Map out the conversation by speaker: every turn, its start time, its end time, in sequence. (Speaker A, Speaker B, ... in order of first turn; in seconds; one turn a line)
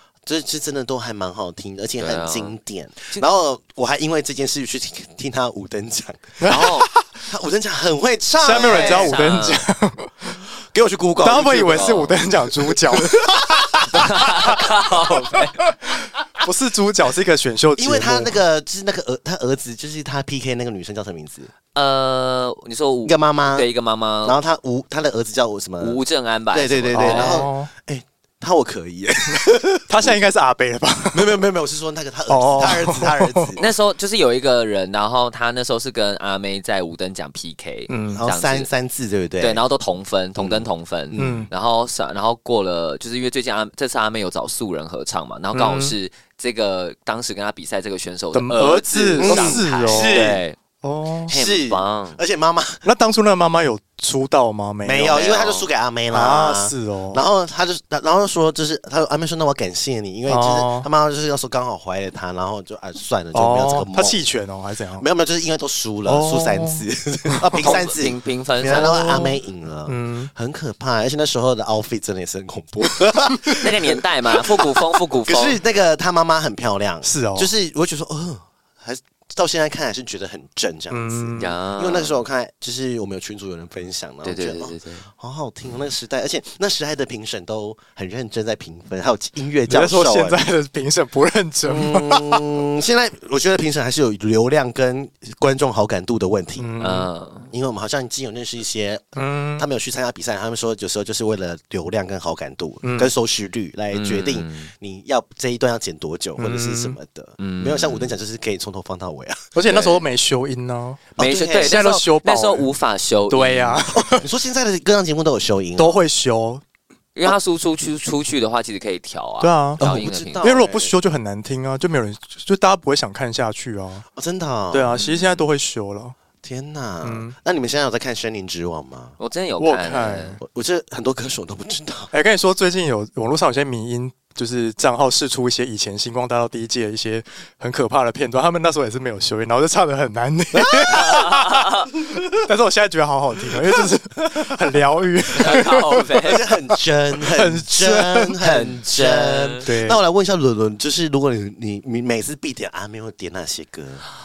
Speaker A: 0.2-9.2
Speaker B: 2.0-2.5
Speaker C: 6.4-7.1
Speaker B: 6.5-6.8
Speaker C: 8.4-10.4
Speaker B: 8.5-9.6
Speaker A: 10.7-14.6
Speaker C: 11.2-14.6
Speaker B: 13.9-15.6
Speaker C: 15.6-18.3
Speaker A: 17.8-21.5
Speaker B: 21.7-24.4
Speaker A: 23.0-23.7
Speaker A: 24.2-26.0
Speaker B: 25.8-27.5
Speaker A: 26.5-30.2
Speaker C: 26.9-27.7
Speaker C: 29.9-31.4
Speaker A: 31.1-33.7
Speaker C: 32.3-33.5
Speaker B: 33.6-38.7
Speaker C: 37.9-38.2
Speaker A: 38.1-39.6
Speaker B: 39.4-50.6
Speaker A: 40.4-41.5
Speaker C: 41.1-41.5
Speaker C: 45.5-46.0
Speaker C: 48.3-51.3
Speaker A: 49.2-50.4
Speaker A: 51.3-52.8
Speaker B: 51.3-52.2
Speaker C: 52.8-55.2
Speaker A: 54.8-64.2
Speaker B: 55.1-55.7
Speaker C: 56.1-57.2
Speaker C: 60.3-60.9
Speaker C: 63.3-65.0
Speaker A: 65.0-90.4
Speaker C: 66.0-67.8
Speaker B: 67.6-69.3
Speaker C: 68.7-69.3
Speaker C: 69.9-70.3
Speaker B: 73.6-75.6
Speaker C: 77.0-77.5
Speaker C: 80.9-81.5
Speaker B: 81.4-82.2
Speaker B: 84.2-85.1
Speaker C: 89.7-92.5
Speaker A: 91.6-96.7
Speaker C: 96.6-97.1
Speaker B: 96.8-97.5
Speaker A: 97.5-109.4
Speaker C: 99.2-99.7
Speaker C: 102.8-103.1
Speaker B: 103.9-104.7
Speaker C: 106.4-107.0
Speaker B: 107.4-108.1
Speaker C: 109.5-112.7
Speaker B: 109.6-110.0
Speaker A: 111.2-111.8
Speaker B: 111.2-113.8
Speaker C: 113.3-114.3
Speaker A: 113.9-116.0
Speaker C: 115.8-116.6
Speaker B: 117.1-120.5
Speaker C: 119.4-119.8
Speaker A: 119.8-120.9
Speaker C: 120.4-124.0
Speaker A: 124.2-125.0
Speaker C: 124.7-126.2
Speaker B: 124.9-125.4
Speaker A: 126.4-129.2
Speaker C: 127.0-127.3
Speaker B: 129.2-130.4
Speaker C: 129.6-130.4
Speaker A: 130.4-132.1
Speaker C: 132.1-146.3
Speaker B: 140.9-141.9
Speaker B: 145.4-146.4
Speaker A: 146.2-154.0
Speaker C: 147.2-148.4
Speaker B: 148.4-149.7
Speaker C: 149.6-150.0